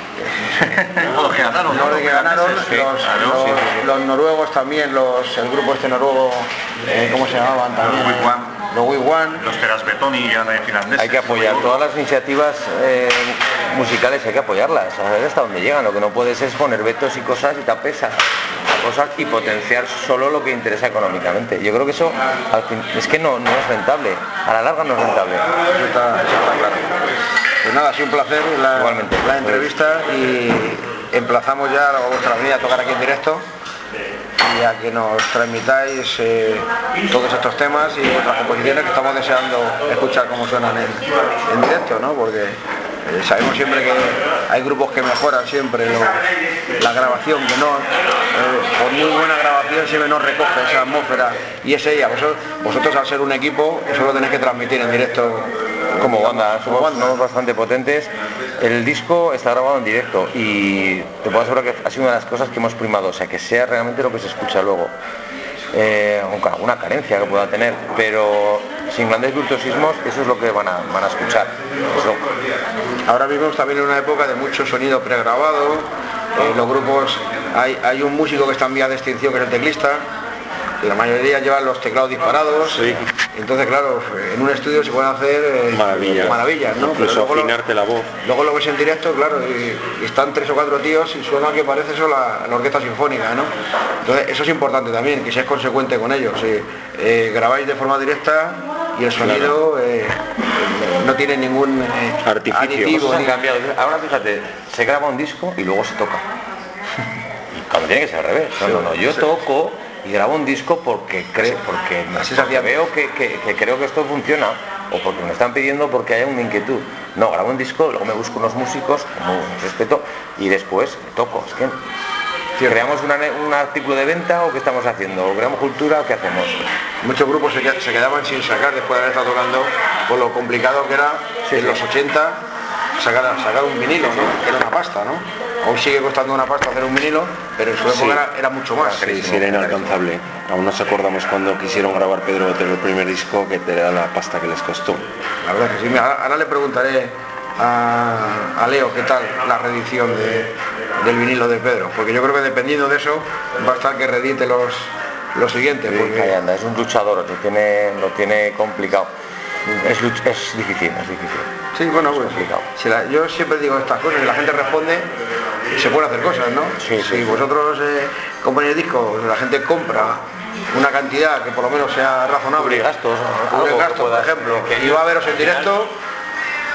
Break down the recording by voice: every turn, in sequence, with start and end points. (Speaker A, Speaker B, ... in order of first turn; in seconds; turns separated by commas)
Speaker A: 0.4-1.0, Speaker B: 0.6-3.7, Speaker C: 1.2-1.7, Speaker A: 1.6-9.4, Speaker C: 2.5-3.5, Speaker C: 8.0-8.3, Speaker C: 9.4-11.8, Speaker B: 10.9-25.5, Speaker A: 25.7-26.9, Speaker A: 27.6-33.5, Speaker B: 28.8-29.7, Speaker A: 34.4-46.3, Speaker A: 46.8-57.2, Speaker B: 56.0-64.9, Speaker B: 65.7-72.2, Speaker A: 73.0-80.0, Speaker A: 80.8-87.6, Speaker D: 82.7-83.0, Speaker D: 85.7-88.1, Speaker A: 88.2-103.4, Speaker D: 99.2-99.6, Speaker D: 102.2-103.2, Speaker B: 102.9-106.2, Speaker B: 107.5-121.8, Speaker A: 108.6-108.9, Speaker A: 112.2-112.8, Speaker A: 122.6-122.9, Speaker B: 122.6-126.6, Speaker A: 127.0-132.4, Speaker B: 131.5-131.8, Speaker A: 133.0-139.1, Speaker D: 137.9-138.2, Speaker B: 138.8-140.0, Speaker D: 139.0-145.0, Speaker A: 145.4-156.3, Speaker B: 155.9-159.1, Speaker B: 159.8-161.5, Speaker A: 161.7-165.1, Speaker B: 162.1-162.7, Speaker A: 165.7-172.8, Speaker B: 166.8-167.5, Speaker B: 172.6-175.7, Speaker A: 173.5-175.9